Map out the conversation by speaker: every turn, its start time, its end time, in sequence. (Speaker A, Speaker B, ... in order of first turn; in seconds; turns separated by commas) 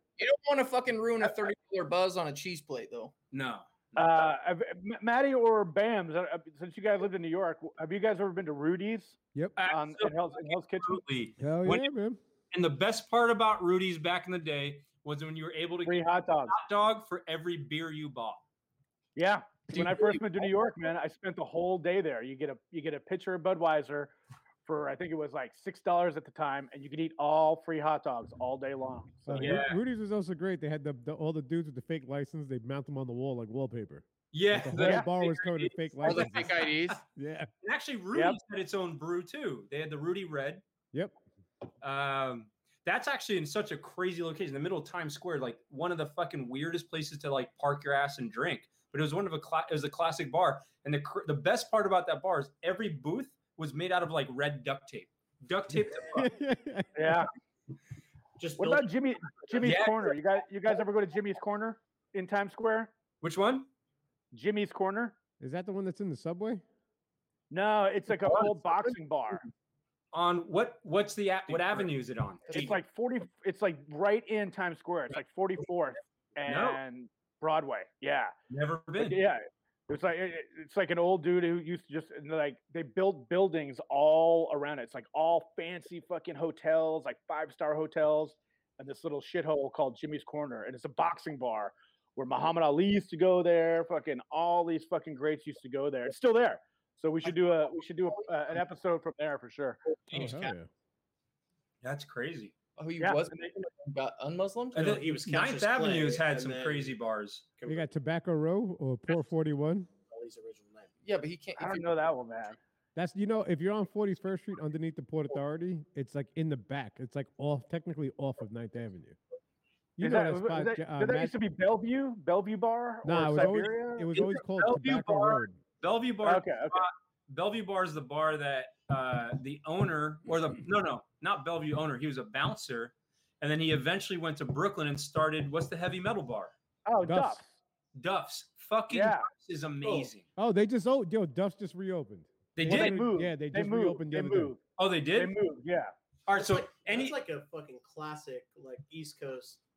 Speaker A: 0.2-3.1, Speaker B: 3.3-4.2, Speaker C: 4.0-11.0, Speaker B: 9.6-11.9, Speaker D: 11.4-12.2, Speaker B: 12.5-18.4, Speaker C: 15.8-16.6, Speaker C: 19.1-24.1, Speaker A: 19.7-20.6, Speaker C: 24.6-29.6, Speaker D: 29.2-37.5, Speaker B: 29.4-29.8, Speaker B: 34.3-36.7, Speaker C: 34.8-35.1, Speaker A: 36.0-37.0, Speaker B: 37.6-40.6, Speaker D: 40.9-41.2, Speaker B: 41.8-56.3, Speaker D: 56.1-57.2, Speaker C: 56.9-57.3, Speaker E: 58.4-59.7, Speaker C: 58.6-62.9, Speaker B: 59.6-60.1, Speaker B: 63.2-63.7, Speaker C: 64.3-65.2, Speaker D: 65.4-66.6, Speaker C: 67.5-69.4, Speaker B: 68.2-68.5, Speaker B: 70.1-72.8, Speaker C: 71.5-71.8, Speaker C: 72.5-78.3, Speaker B: 76.5-76.8, Speaker B: 78.5-79.2, Speaker C: 79.0-99.8, Speaker E: 99.9-100.5, Speaker D: 100.1-100.7, Speaker B: 101.8-102.5, Speaker A: 102.8-105.0, Speaker C: 103.0-103.5, Speaker B: 104.7-107.4, Speaker E: 104.8-106.9, Speaker E: 107.6-107.9, Speaker D: 107.7-109.9, Speaker E: 110.1-110.9, Speaker A: 111.0-112.1, Speaker C: 111.6-112.6, Speaker D: 112.9-119.2, Speaker D: 120.0-121.3, Speaker C: 120.0-124.3, Speaker D: 123.0-125.6, Speaker B: 124.1-136.5, Speaker C: 126.2-126.9, Speaker C: 136.8-137.5, Speaker D: 137.0-137.4, Speaker B: 137.9-140.3, Speaker C: 138.9-139.3, Speaker E: 139.8-140.1, Speaker D: 140.4-144.5, Speaker B: 142.6-143.1, Speaker C: 142.6-145.9, Speaker B: 144.8-145.3, Speaker B: 146.3-147.2, Speaker E: 146.3-149.6